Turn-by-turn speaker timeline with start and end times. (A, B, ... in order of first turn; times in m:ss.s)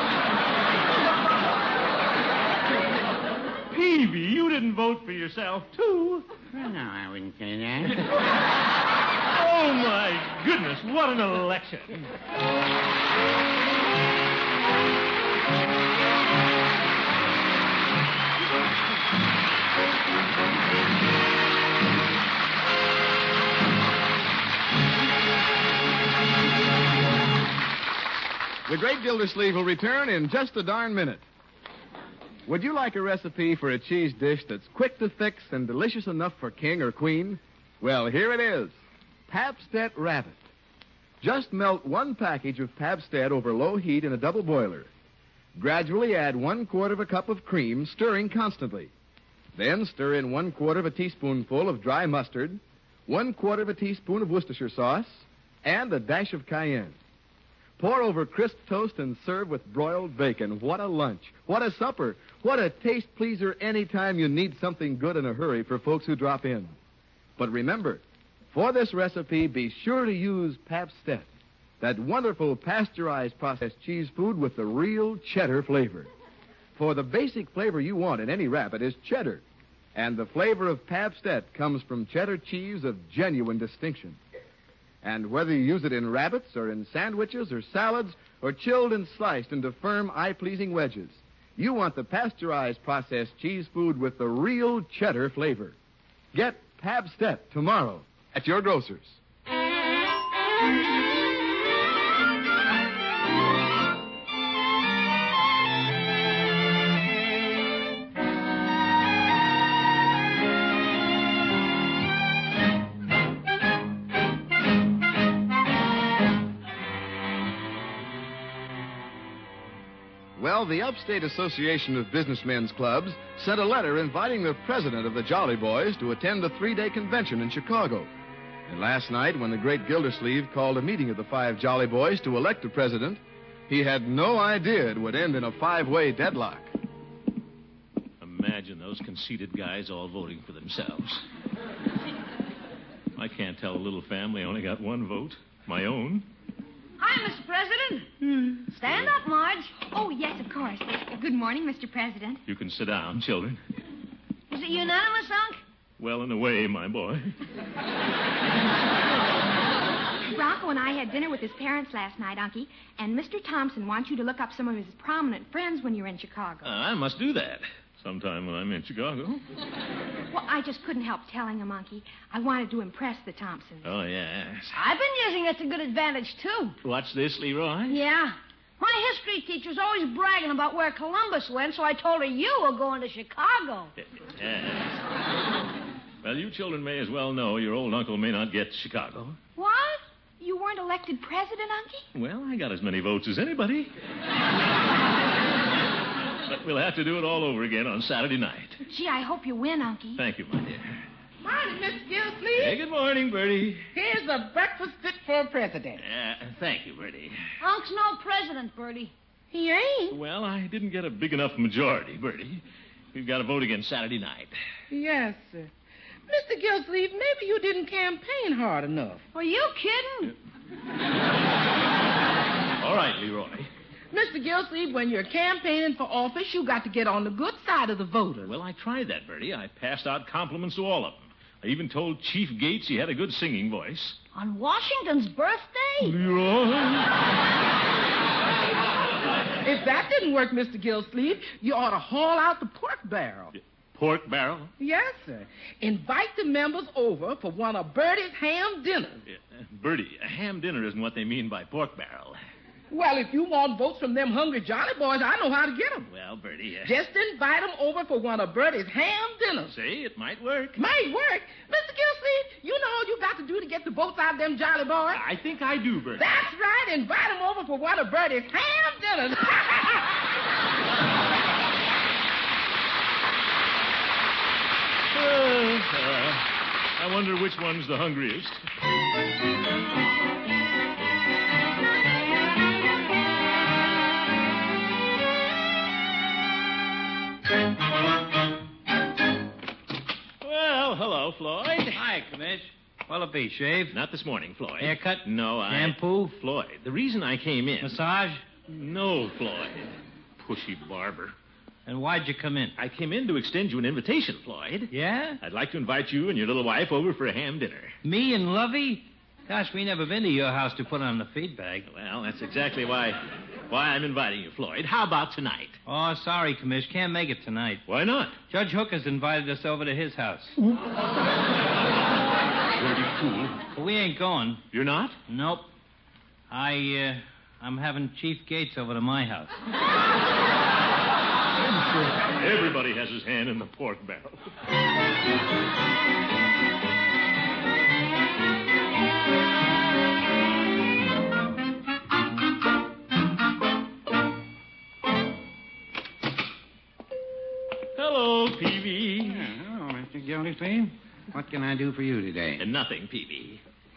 0:03.7-0:06.3 A
0:06.5-0:08.0 B
0:09.3-0:12.0 A
0:28.7-0:31.2 C
0:32.5-0:38.7 C
0:39.3-0:40.4 C
0:41.2-0:44.9 C
0:45.6-0:48.9 C
0:49.6-0:57.0 C
0:57.8-1:06.7 C
1:07.4-1:11.3 C
1:11.8-1:16.1 C
1:16.8-1:19.4 C
1:20.0-1:24.2 C
1:25.0-1:35.8 C
1:36.3-1:39.2 C
2:00.4-2:08.1 C
2:08.7-2:16.7 C
2:18.2-2:21.2 A
2:23.2-2:26.3 A
2:27.0-2:29.8 D
2:28.3-2:29.1 A
2:29.8-2:32.4 E
2:32.5-2:33.6 A
2:34.5-2:35.6 D
2:36.0-2:37.4 A
2:40.3-2:46.7 E
2:46.6-2:49.4 A
2:50.3-2:53.9 E
2:53.8-2:54.8 A
2:54.7-2:56.8 D
2:56.8-2:58.0 A
2:57.9-3:03.9 D
3:04.0-3:05.0 A
3:06.2-3:09.4 A
3:09.6-3:10.0 D
3:10.4-3:12.1 E
3:12.1-3:13.9 A
3:16.4-3:18.8 A
3:18.8-3:20.2 E
3:20.2-3:21.0 A
3:21.4-3:22.8 F
3:22.5-3:23.9 A
3:23.9-3:26.0 F
3:26.0-3:27.4 A
3:27.6-3:29.1 D
3:29.5-3:30.2 F
3:30.1-3:34.6 A
3:34.9-3:35.7 F
3:36.3-3:39.2 F
3:39.3-3:40.3 D
3:42.8-3:43.7 A
3:44.1-3:48.6 F
3:48.4-3:54.2 A
3:54.3-3:56.2 D
3:56.0-3:57.1 A
3:59.6-4:03.5 F
4:03.5-4:04.7 A
4:04.8-4:09.2 F
4:09.3-4:12.4 A
4:12.9-4:16.1 F
4:16.1-4:17.0 A
4:16.8-4:19.8 F
4:19.7-4:20.8 A
4:20.8-4:25.2 F
4:25.1-4:26.3 A
4:26.2-4:30.0 F
4:35.1-4:38.7 A
4:50.4-4:52.0 A
4:51.9-4:54.0 G
4:53.9-4:58.0 A
4:54.8-4:56.3 G
4:57.8-4:58.4 G
4:58.7-5:01.4 A
5:01.9-5:02.8 G
5:02.8-5:08.0 A
5:04.9-5:05.4 G
5:08.0-5:11.9 G
5:11.9-5:15.8 A
5:15.9-5:17.8 G
5:17.9-5:18.4 A
5:18.5-5:20.6 G
5:22.7-5:23.6 A
5:23.7-5:24.6 G
5:24.7-5:25.2 A
5:25.3-5:25.7 G
5:26.5-5:29.5 G
5:32.0-5:34.5 A
5:48.0-5:49.5 A
5:49.2-5:52.6 B
5:52.6-5:53.6 A